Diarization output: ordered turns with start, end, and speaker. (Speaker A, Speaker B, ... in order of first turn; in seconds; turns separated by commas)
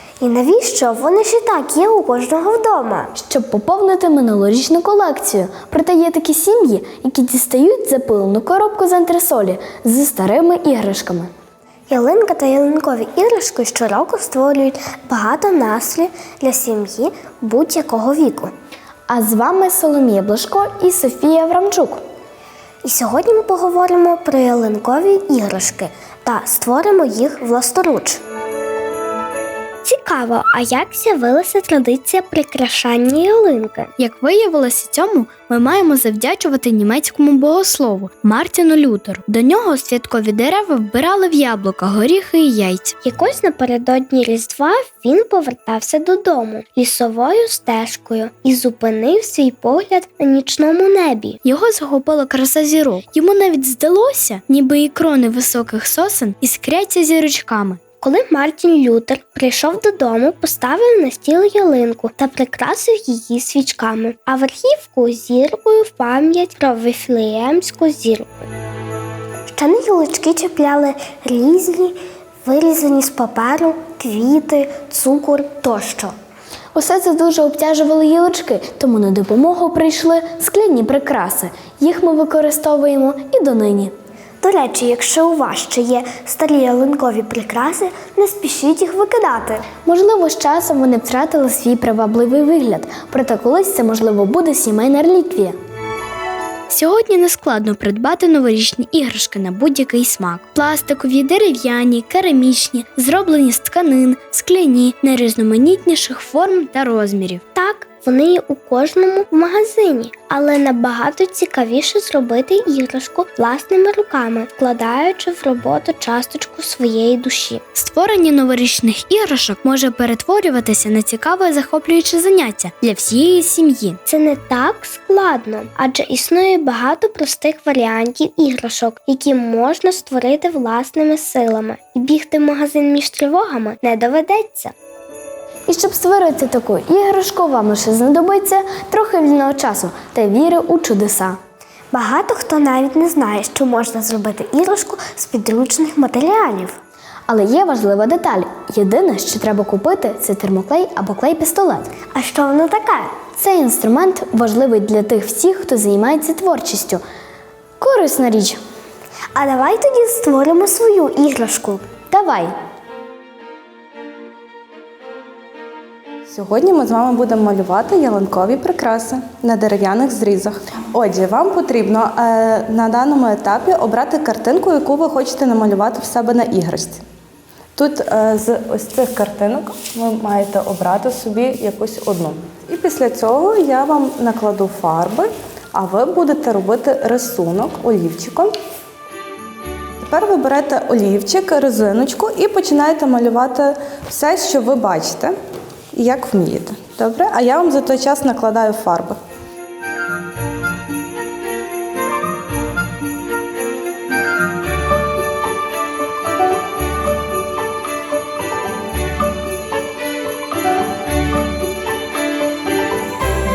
Speaker A: 0.2-3.1, Speaker B: 3.1-11.3, Speaker A: 11.9-18.5, Speaker B: 19.1-22.0, Speaker A: 22.8-28.2, Speaker A: 29.8-33.9, Speaker B: 34.0-42.9, Speaker A: 43.0-51.4, Speaker B: 51.4-57.8, Speaker A: 58.0-68.5, Speaker A: 69.5-76.1, Speaker B: 76.7-83.9, Speaker A: 84.4-89.7, Speaker B: 89.8-95.5, Speaker B: 96.7-107.4, Speaker A: 107.5-117.6, Speaker B: 117.8-124.0, Speaker A: 124.1-134.7, Speaker B: 135.7-141.4, Speaker A: 141.9-146.8, Speaker B: 147.3-151.9, Speaker A: 152.1-153.2, Speaker B: 153.4-157.0, Speaker B: 157.8-158.6, Speaker A: 159.3-161.8, Speaker B: 162.1-162.5, Speaker C: 166.3-177.0, Speaker C: 177.8-188.5, Speaker C: 190.0-195.3, Speaker C: 195.9-199.2